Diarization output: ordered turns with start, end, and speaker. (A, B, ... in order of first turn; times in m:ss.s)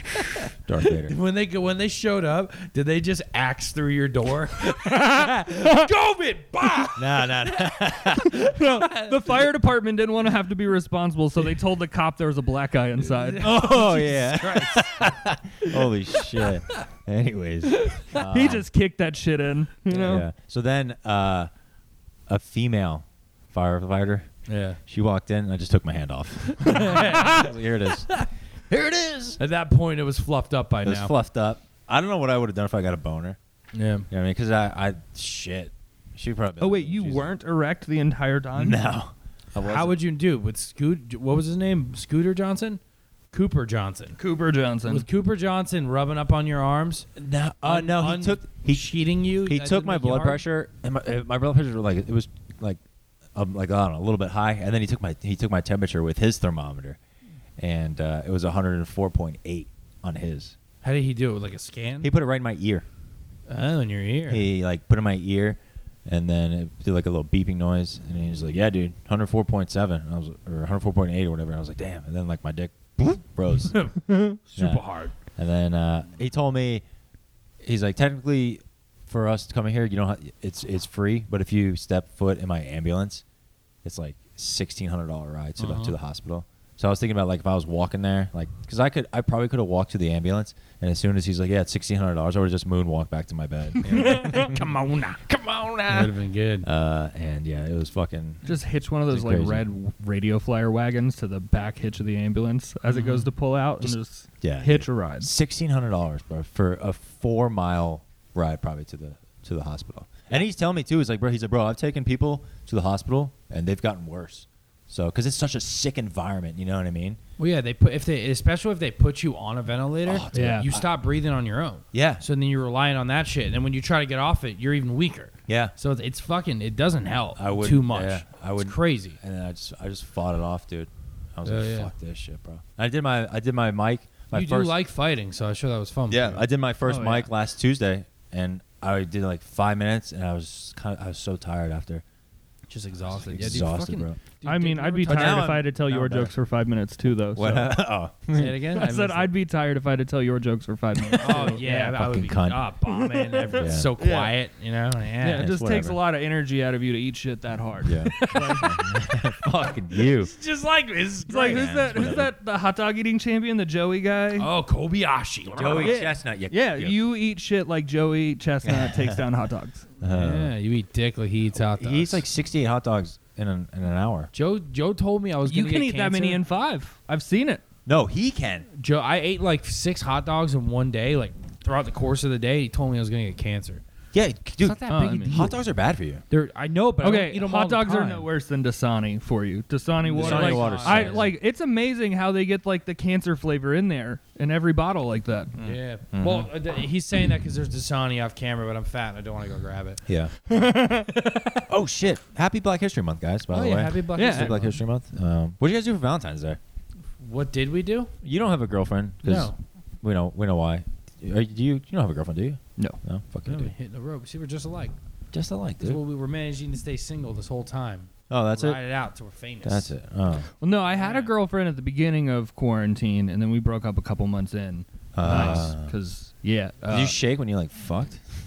0:00.6-0:01.1 A
0:01.0-0:07.3 B
0:07.0-0:08.5 A
0:08.3-0:13.5 C
0:08.6-0:09.4 B
0:13.0-0:15.1 B
0:13.4-0:18.6 A
0:15.6-0:16.8 B
0:17.7-0:18.1 B
0:18.2-0:20.2 C
0:19.9-0:21.5 A
0:22.3-0:24.3 A
0:24.5-0:24.8 B
0:24.9-0:29.4 A
0:26.6-0:27.6 B
0:29.4-0:31.1 B
0:30.8-0:33.4 A
0:33.7-0:34.1 B
0:34.1-0:37.3 A
0:36.6-0:38.8 C
0:38.6-0:40.0 A
0:39.6-0:42.8 B
0:43.3-0:44.2 B
0:44.2-0:45.0 C
0:44.8-0:50.4 B
0:47.2-0:48.8 A
0:49.4-0:52.8 A
0:53.3-0:57.0 A
0:57.6-1:00.6 A
1:00.8-1:02.1 B
1:02.0-1:02.8 A
1:03.5-1:04.4 B
1:04.3-1:13.8 A
1:13.7-1:15.1 B
1:14.1-1:14.4 C
1:14.6-1:14.8 A
1:15.4-1:16.8 A
1:17.6-1:23.2 A
1:23.8-1:34.7 A
1:25.6-1:25.9 B
1:33.8-1:34.5 C
1:33.9-1:35.2 B
1:35.2-1:38.4 A
1:35.9-1:36.7 B
1:38.4-1:45.3 C
1:39.1-1:39.6 A
1:42.9-1:43.3 B
1:43.8-1:57.2 A
1:57.4-2:09.2 B
2:00.0-2:00.9 A
2:00.3-2:00.7 C
2:01.9-2:02.2 A
2:05.5-2:05.7 A
2:07.4-2:14.7 A
2:11.4-2:11.9 B
2:14.3-2:16.4 B
2:16.1-2:22.0 A
2:16.8-2:17.3 C
2:22.7-2:25.6 B
2:23.1-2:24.2 A
2:24.4-2:27.8 C
2:25.0-2:26.3 A
2:27.3-2:28.6 A
2:28.3-2:29.3 B
2:28.7-2:31.9 C
2:31.1-2:35.5 B
2:31.3-2:32.6 A
2:32.9-2:34.3 C
2:33.5-2:33.9 A
2:35.2-2:38.7 C
2:35.4-2:36.0 A
2:37.8-2:40.3 A
2:38.1-2:39.0 B
2:39.9-2:42.2 B
2:41.3-2:44.5 C
2:41.4-2:42.3 A
2:44.4-2:46.0 B
2:45.6-2:47.0 A
2:45.8-2:49.8 C
2:48.6-2:49.2 A
2:50.0-2:50.5 A
2:50.0-2:52.2 B
2:51.7-2:54.3 A
2:54.3-2:56.4 B
2:55.4-2:57.6 C
2:57.8-2:58.7 A
2:58.8-3:03.8 B
3:04.1-3:06.2 A
3:04.7-3:05.4 C
3:04.8-3:05.6 B
3:06.3-3:08.3 B
3:07.0-3:15.6 C
3:10.0-3:11.3 B
3:10.1-3:11.3 A
3:15.6-3:16.5 A
3:15.6-3:20.0 B
3:20.1-3:20.3 A
3:20.5-3:21.1 C
3:21.1-3:21.6 B
3:21.7-3:26.6 A
3:23.5-3:24.8 B
3:24.1-3:24.6 C
3:27.2-3:28.1 B
3:28.2-3:33.7 A
3:29.2-3:29.6 B
3:33.4-3:34.9 B
3:35.3-3:36.0 A
3:35.8-3:39.9 B
3:38.3-3:38.8 A
3:39.6-3:40.5 A
3:40.6-3:47.1 C
3:40.9-3:41.3 B
3:45.1-3:45.9 A
3:45.2-3:45.7 B
3:46.9-3:48.2 A